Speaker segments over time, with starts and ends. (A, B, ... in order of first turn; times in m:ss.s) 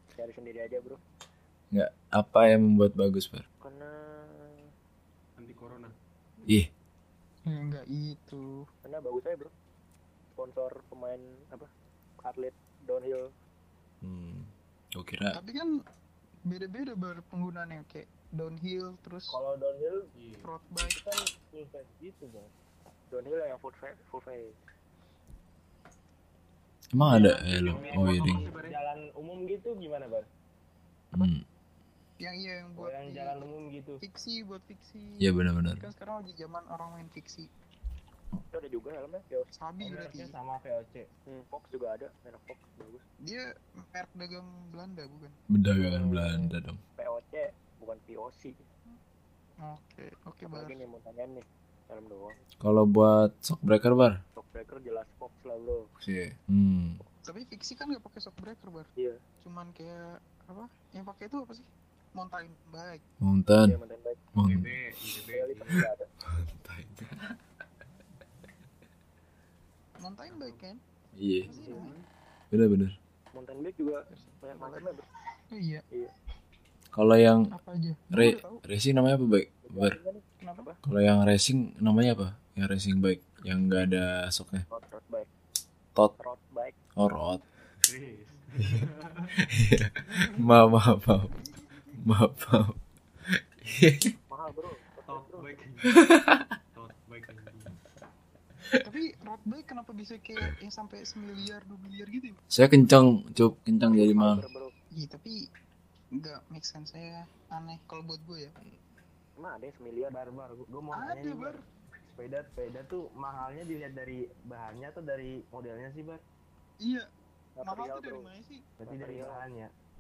0:00.2-0:01.0 A
0:01.7-0:03.4 B
0:03.6-0:04.7 A
0:05.4-0:05.9 C
0:07.5-0:08.5 D
0:08.8-0:09.5 A
0:10.4-0:11.7 A
0:12.2-0:13.3 A
0:14.0-0:15.4 B
0:15.3-0:15.7 D
0:16.5-0:19.4 D
0:19.3-0:20.1 E
0:20.2-0:20.5 C
0:20.4-0:21.0 D
0:20.8-0:22.5 E
0:23.1-0:24.6 A
0:26.9-0:28.5 B
0:27.0-0:28.8 C
0:27.1-0:30.3 E
0:31.1-0:31.4 B
0:32.2-0:33.4 D
0:32.8-0:34.0 E
0:34.0-0:37.5 D
0:35.2-0:35.9 B
0:38.5-0:39.5 A
0:39.6-0:40.3 D
0:39.8-0:41.1 E
0:41.3-0:43.0 A
0:43.2-0:45.4 D
0:45.5-0:46.8 B
0:45.8-0:48.6 A
0:49.6-0:50.8 D
0:50.5-0:52.4 A
0:52.6-0:54.2 B
0:54.4-0:55.9 A
0:56.0-0:57.0 B
0:57.2-0:58.9 D
0:59.4-1:03.0 D
1:03.2-1:03.8 B
1:03.6-1:04.2 A
1:04.4-1:04.7 B
1:04.4-1:05.9 C
1:05.3-1:06.1 A
1:06.3-1:07.4 B
1:10.0-1:10.8 D
1:10.3-1:10.6 C
1:11.2-1:11.5 B
1:11.5-1:12.1 C
1:11.5-1:11.9 D
1:11.6-1:11.8 A
1:12.5-1:13.0 B
1:13.3-1:15.1 A
1:14.1-1:15.0 D
1:15.5-1:15.8 D
1:16.9-1:17.5 B
1:17.5-1:18.6 D
1:18.1-1:20.0 B
1:19.6-1:20.8 A
1:20.4-1:20.7 D
1:20.8-1:24.6 B
1:24.7-1:25.3 A
1:26.2-1:26.8 A
1:27.0-1:27.4 B
1:27.9-1:29.4 C
1:29.5-1:31.4 B
1:30.1-1:30.4 C
1:32.0-1:32.8 B
1:33.6-1:34.1 B
1:34.3-1:35.5 A
1:35.1-1:36.1 C
1:36.1-1:36.4 B
1:36.7-1:37.7 C
1:38.8-1:42.4 D
1:42.5-1:44.4 B
1:43.9-1:44.7 A
1:45.0-1:45.4 D
1:46.2-1:48.5 D
1:49.4-1:50.2 A
1:50.1-1:56.2 E
1:51.0-1:51.6 D
1:56.8-1:57.1 D
1:57.6-1:58.3 A
1:57.6-1:58.6 D
1:58.8-1:59.7 E
1:58.9-1:59.4 A